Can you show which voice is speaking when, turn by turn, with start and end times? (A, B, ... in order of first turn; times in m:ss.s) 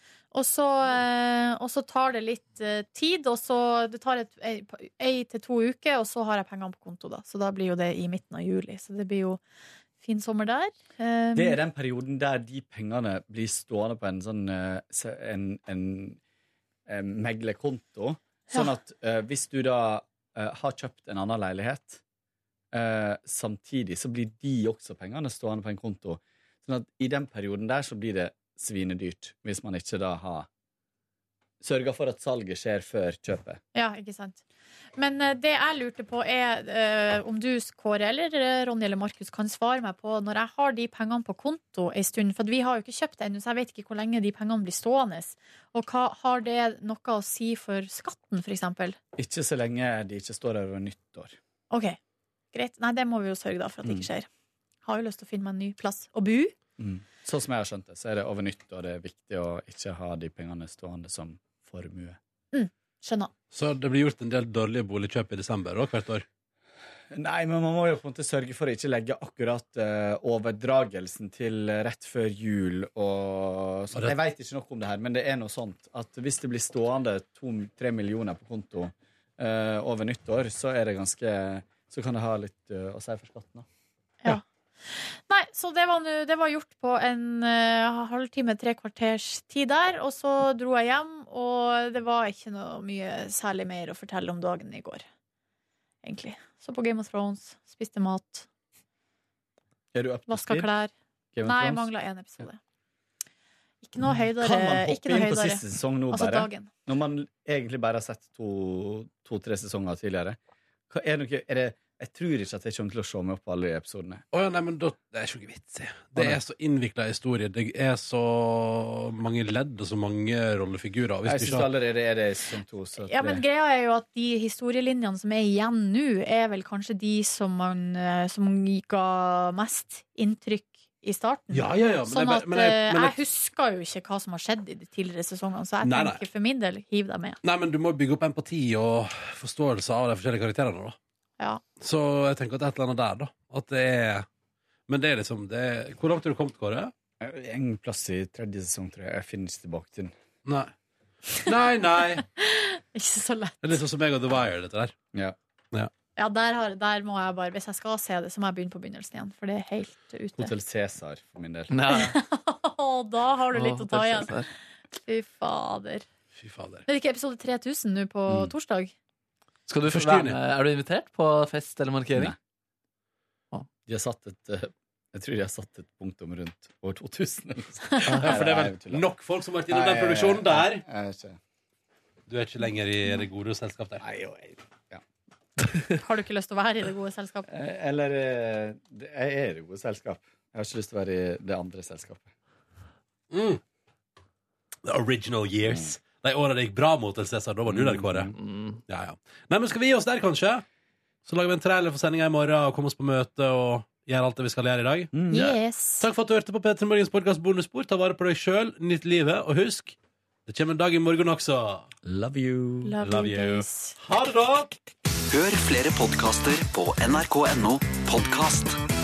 0:00.3-0:09.4 A
0:10.0-0:11.6 A
0:11.4-0:16.2 B
0:16.9-0:22.0 B
0:22.7-0:30.5 B
0:31.6-0:33.6 B
0:33.7-0:34.4 A
0:35.0-0:49.0 A
0:49.2-0:51.4 B
0:51.7-0:52.0 A
0:52.5-0:54.2 A
0:54.8-0:56.5 A
0:56.8-1:02.2 B
1:02.5-1:03.3 A
1:03.5-1:06.2 C
1:07.1-1:23.7 B
1:24.2-1:35.0 A
1:36.0-1:38.4 A
1:39.9-1:40.7 B
1:40.3-1:40.9 A
1:41.3-1:41.9 B
1:41.4-1:42.6 A
1:43.8-1:46.7 A
1:44.4-1:50.4 B
1:50.9-1:54.2 B
1:54.3-2:01.7 C
2:01.2-2:03.4 B
2:03.0-2:17.4 A
2:11.5-2:13.2 C
2:15.8-2:16.2 C
2:17.4-2:21.0 C
2:21.8-2:24.3 C
2:24.9-2:26.9 C
2:27.2-2:30.1 B
2:30.4-2:30.7 C
2:31.4-2:32.2 C
2:32.4-2:33.8 A
2:33.6-2:35.0 C
2:36.2-2:40.5 A
2:40.4-2:41.7 B
2:41.7-2:42.2 D
2:41.9-2:44.4 A
2:43.5-2:44.5 D
2:45.0-2:46.0 A
2:46.4-2:46.8 C
2:46.9-2:48.9 A
2:49.7-2:52.3 D
2:49.8-2:50.4 C
2:53.8-2:59.0 B
2:58.1-2:58.4 D
2:58.1-3:00.8 C
2:59.7-3:01.4 B
3:02.3-3:04.0 C
3:04.0-3:05.0 B
3:06.0-3:07.5 A
3:07.5-3:12.3 B
3:13.3-3:13.6 C
3:14.8-3:18.3 C
3:15.7-3:15.9 B
3:17.7-3:18.3 B
3:18.4-3:18.8 D
3:18.9-3:20.6 C
3:21.2-3:25.1 C
3:25.1-3:25.6 B
3:25.3-3:26.1 A
3:26.0-3:29.9 C
3:30.4-3:31.9 C
3:32.0-3:32.9 B
3:32.8-3:34.0 A
3:33.0-3:34.7 C
3:35.3-3:38.7 E